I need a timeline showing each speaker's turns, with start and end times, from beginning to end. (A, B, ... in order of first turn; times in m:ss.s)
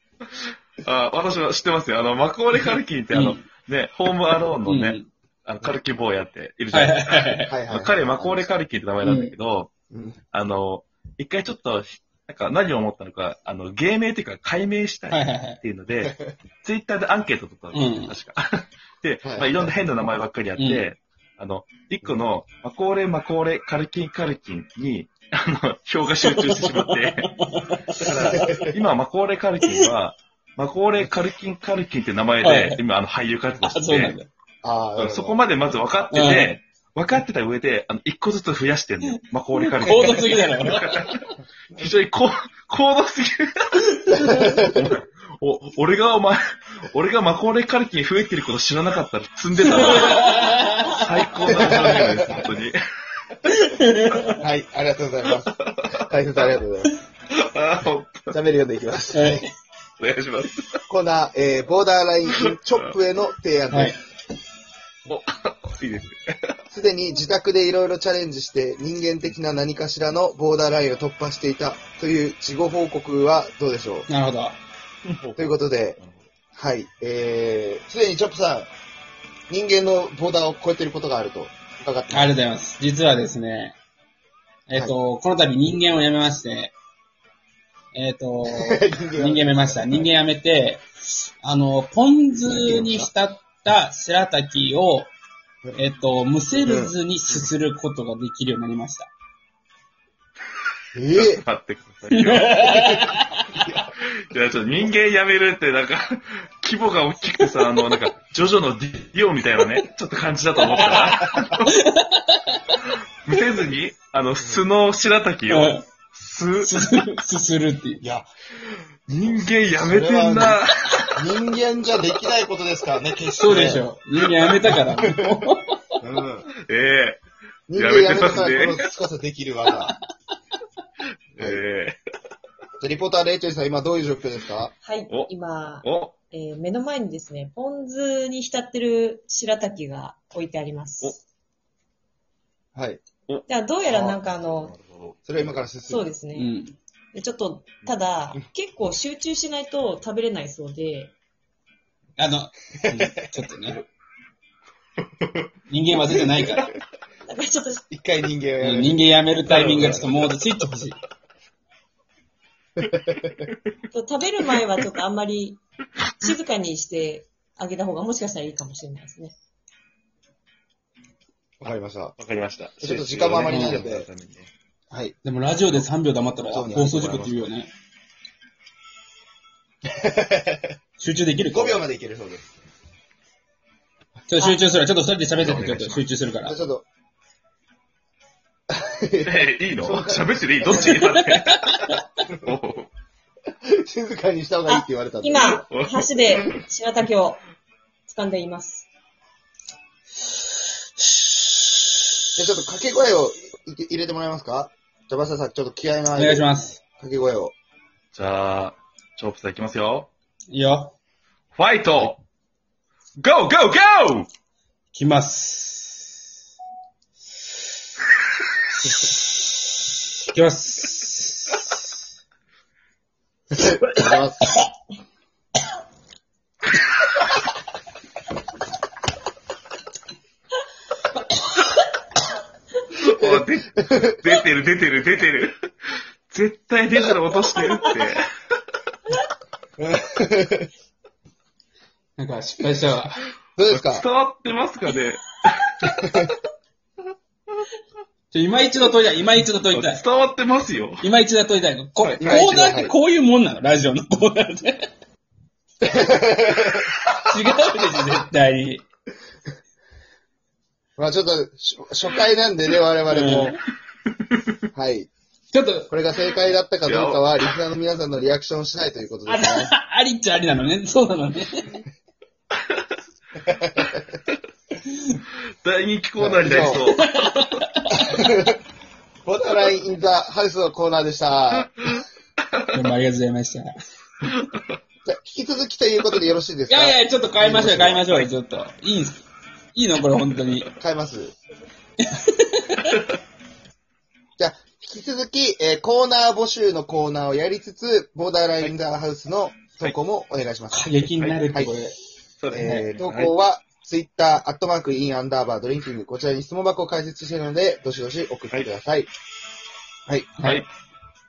0:00.3-0:09.7 A
0:03.1-0:03.4 B
0:04.6-0:05.1 B
0:06.7-0:07.5 B
0:07.5-0:08.5 C
0:09.0-0:09.3 B
0:09.9-0:10.2 C
0:10.3-0:27.3 A
0:15.1-0:15.6 B
0:16.0-0:16.3 C
0:17.7-0:18.2 B
0:19.2-0:19.7 C
0:20.6-0:20.8 B
0:26.2-0:28.7 B
0:28.0-0:34.2 A
0:28.2-0:28.7 C
0:32.4-0:32.8 B
0:33.6-0:34.3 B
0:34.6-0:35.4 C
0:35.0-0:41.2 A
0:36.1-0:36.6 B
0:39.6-0:41.3 B
0:41.7-0:52.8 A
0:44.1-0:44.9 C
0:49.6-0:51.1 B
0:51.4-0:52.4 C
0:53.5-0:54.4 B
0:54.4-0:56.9 C
0:57.3-0:58.4 A
0:58.3-0:59.5 C
0:59.1-0:59.5 B
1:00.0-1:00.8 A
1:00.9-1:04.0 C
1:02.3-1:02.9 A
1:03.7-1:04.0 B
1:05.1-1:06.6 A
1:06.7-1:14.1 C
1:14.1-1:14.6 B
1:15.1-1:16.1 A
1:15.4-1:16.0 C
1:16.5-1:18.7 C
1:19.5-1:22.4 C
1:22.1-1:23.8 B
1:24.7-1:26.7 B
1:27.9-1:30.8 B
1:28.4-1:30.1 C
1:31.4-1:35.1 B
1:32.5-1:33.1 C
1:35.8-1:39.1 B
1:36.6-1:36.9 C
1:40.9-1:41.4 C
1:41.1-1:43.1 A
1:42.1-1:43.6 B
1:43.9-1:51.7 A
1:47.4-1:48.0 B
1:50.6-1:52.8 B
1:53.2-1:56.7 A
1:55.5-1:55.8 B
1:56.6-1:58.0 B
1:58.0-1:58.3 C
1:58.6-2:01.2 A
1:59.6-2:00.6 C
2:01.2-2:03.9 C
2:03.4-2:05.8 B
2:04.8-2:05.2 C
2:06.0-2:06.5 C
2:06.6-2:07.2 A
2:07.7-2:09.9 C
2:07.7-2:08.8 A
2:11.4-2:12.0 A
2:12.8-2:14.7 C
2:14.8-2:21.2 D
2:15.1-2:16.1 A
2:22.7-2:23.0 C
2:23.5-2:24.7 D
2:23.9-2:24.2 C
2:24.5-2:25.2 A
2:25.2-2:26.0 C
2:25.8-2:26.5 D
2:26.4-2:26.8 B
2:27.1-2:31.1 D
2:32.2-2:33.8 B
2:35.7-2:36.7 B
2:37.3-2:37.9 D
2:37.9-2:39.0 C
2:38.6-2:41.0 B
2:39.4-2:40.1 A
2:39.5-2:40.1 C
2:42.8-2:43.5 C
2:43.9-2:45.6 D
2:46.2-2:49.3 D
2:51.6-2:52.2 C
2:52.2-2:54.5 A
2:52.8-2:54.1 C
2:53.4-2:53.8 B
2:55.2-2:57.7 B
2:56.4-2:57.1 C
2:56.8-2:57.5 A
2:59.9-3:00.7 C
3:01.0-3:01.8 B
3:01.5-3:02.5 C
3:04.3-3:06.6 B
3:05.3-3:06.1 A
3:06.4-3:06.8 C
3:08.7-3:11.2 C
3:09.2-3:12.9 A
3:11.3-3:12.0 B
3:13.6-3:15.6 C
3:14.7-3:17.4 D
3:15.7-3:16.6 A
3:18.1-3:18.8 D
3:22.4-3:27.5 C
3:26.1-3:26.8 B
3:28.1-3:30.1 A
3:30.5-3:30.9 B
3:31.5-3:32.2 A
3:33.2-3:34.3 A
3:34.9-3:36.0 B
3:40.3-3:41.7 B
3:43.5-3:44.4 C
3:52.9-3:55.5 A
3:53.2-3:54.2 C
3:56.3-3:58.3 A
3:59.8-4:00.7 C
4:02.2-4:03.2 B
4:03.6-4:04.0 C
4:03.7-4:05.9 A
4:05.8-4:06.3 C
4:08.3-4:10.0 B
4:09.7-4:11.0 A
4:11.0-4:14.9 B
4:12.0-4:12.5 A
4:12.2-4:12.9 C
4:15.8-4:16.9 C
4:17.2-4:18.8 B
4:21.0-4:23.6 C
4:23.1-4:23.5 B
4:24.7-4:25.1 C
4:25.5-4:25.9 B
4:25.9-4:29.7 C
4:26.8-4:27.4 A
4:29.3-4:31.8 B
4:33.4-4:34.0 C
4:35.6-4:37.5 A
4:36.2-4:36.9 C
4:36.7-4:38.2 B
4:37.9-4:38.5 C
4:39.2-4:41.9 C
4:42.7-4:43.7 B
4:45.0-4:48.2 C
4:46.7-4:49.2 B
4:49.7-4:50.7 B
4:50.8-4:51.3 C
4:52.0-4:52.8 B
4:54.4-5:01.0 C
5:00.7-5:02.0 B
5:01.2-5:01.4 A
5:02.4-5:03.3 A
5:02.5-5:09.1 C
5:02.6-5:02.9 B
5:10.1-5:10.3 C
5:10.4-5:10.6 B
5:10.4-5:10.7 A